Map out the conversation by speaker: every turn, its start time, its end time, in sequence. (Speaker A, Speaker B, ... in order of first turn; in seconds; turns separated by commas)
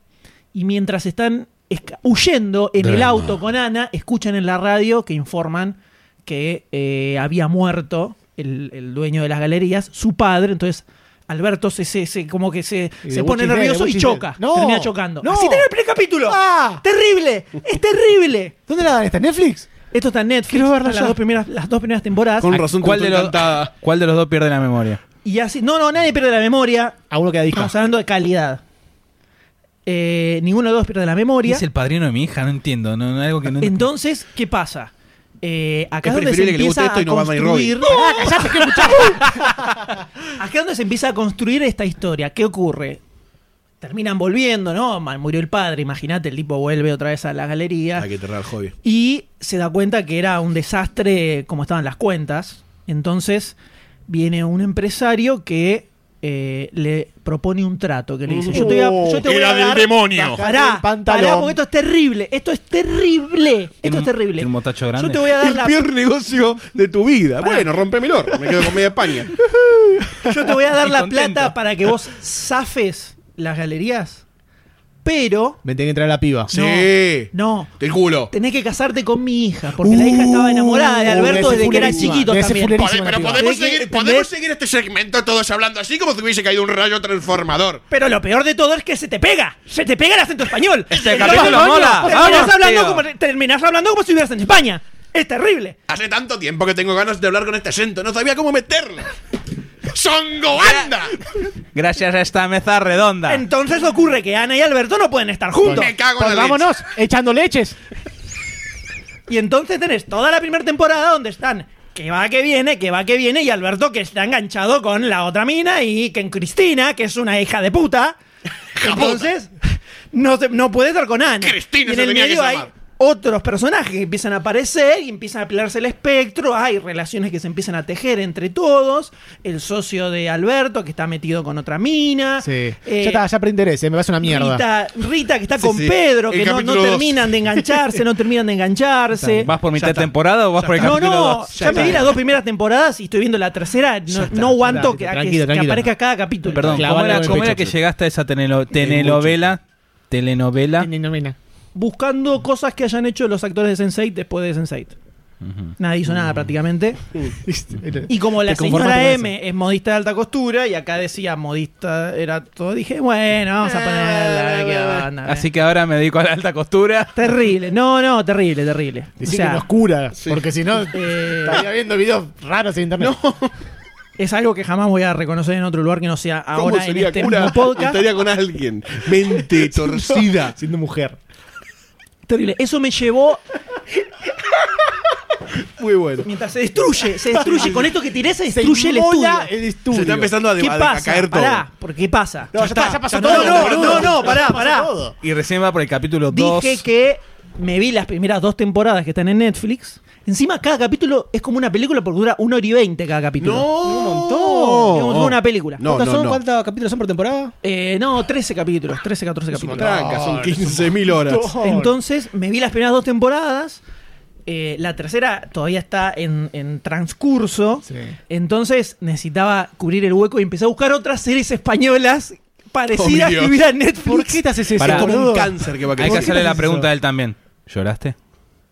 Speaker A: 0.5-18.5, Speaker B: 2.8-3.3, Speaker C: 13.0-15.7, Speaker C: 16.3-16.8, Speaker C: 18.7-19.7, Speaker A: 19.9-22.6, Speaker C: 20.5-21.2, Speaker B: 22.4-23.7, Speaker D: 22.8-25.0, Speaker A: 25.2-27.0, Speaker C: 27.1-27.7, Speaker A: 27.5-28.6, Speaker A: 29.9-31.6, Speaker D: 31.4-33.9, Speaker A: 33.6-39.4, Speaker B: 36.0-37.9, Speaker C: 37.8-39.9, Speaker A: 40.3-43.0, Speaker A: 43.8-48.1, Speaker B: 48.0-48.7, Speaker A: 48.8-53.5, Speaker A: 54.1-65.8, Speaker B: 58.3-60.4, Speaker C: 58.5-59.3, Speaker C: 60.1-61.5, Speaker D: 63.8-65.3, Speaker B: 65.4-69.3, Speaker A: 67.4-67.7, Speaker C: 69.6-70.1, Speaker A: 70.2-74.2, Speaker D: 70.8-71.5, Speaker A: 75.0-75.6, Speaker C: 75.6-76.5, Speaker A: 76.5-77.7, Speaker B: 76.5-78.3, Speaker A: 78.3-82.8, Speaker C: 79.8-83.5, Speaker B: 81.1-87.8, Speaker A: 83.3-84.3, Speaker A: 87.9-95.8, Speaker D: 90.9-93.0, Speaker C: 91.0-92.5, Speaker B: 95.9-99.1, Speaker B: 99.8-101.2, Speaker D: 100.6-100.9, Speaker D: 101.7-103.5, Speaker A: 103.3-105.9, Speaker C: 105.6-107.8, Speaker B: 105.6-106.7, Speaker A: 109.3-118.2, Speaker A: 118.8-133.2, Speaker B: 118.8-119.2, Speaker B: 121.4-122.7, Speaker C: 132.4-134.6, Speaker A: 134.2-139.5, Speaker B: 135.6-137.4, Speaker C: 139.2-139.5, Speaker D: 139.4-142.1, Speaker B: 139.7-142.2, Speaker A: 140.8-147.5, Speaker C: 144.1-145.9, Speaker C: 146.5-147.7, Speaker D: 146.5-149.6, Speaker B: 148.8-149.3, Speaker D: 150.1-150.9, Speaker C: 150.8-151.4, Speaker A: 151.7-154.9, Speaker D: 155.4-155.7, Speaker A: 155.8-157.0, Speaker C: 157.3-159.3, Speaker A: 158.1-165.5, Speaker B: 163.6-165.1, Speaker D: 165.3-167.2, Speaker A: 167.1-169.6, Speaker C: 169.2-173.1, Speaker A: 170.9-171.6, Speaker B: 173.0-173.5, Speaker A: 174.2-178.1, Speaker B: 176.5-180.6, Speaker C: 179.6-181.2, Speaker A: 182.3-183.4, Speaker B: 185.6-186.3, Speaker A: 186.2-189.5, Speaker C: 187.3-187.9, Speaker C: 188.5-190.3, Speaker B: 189.9-191.6, Speaker A: 190.6-194.9, Speaker C: 192.5-195.2, Speaker B: 192.6-194.2, Speaker D: 195.2-196.8, Speaker A: 196.3-203.7, Speaker B: 203.4-206.4, Speaker C: 203.8-205.0, Speaker A: 204.9-205.8, Speaker C: 205.8-207.5, Speaker A: 207.6-210.0, Speaker C: 209.5-211.9, Speaker B: 209.7-211.6, Speaker A: 211.6-213.8, Speaker A: 214.4-224.4, Speaker C: 217.9-218.1, Speaker B: 222.9-223.6, Speaker C: 224.1-226.9, Speaker D: 224.8-225.1, Speaker B: 224.8-226.6, Speaker D: 226.0-228.1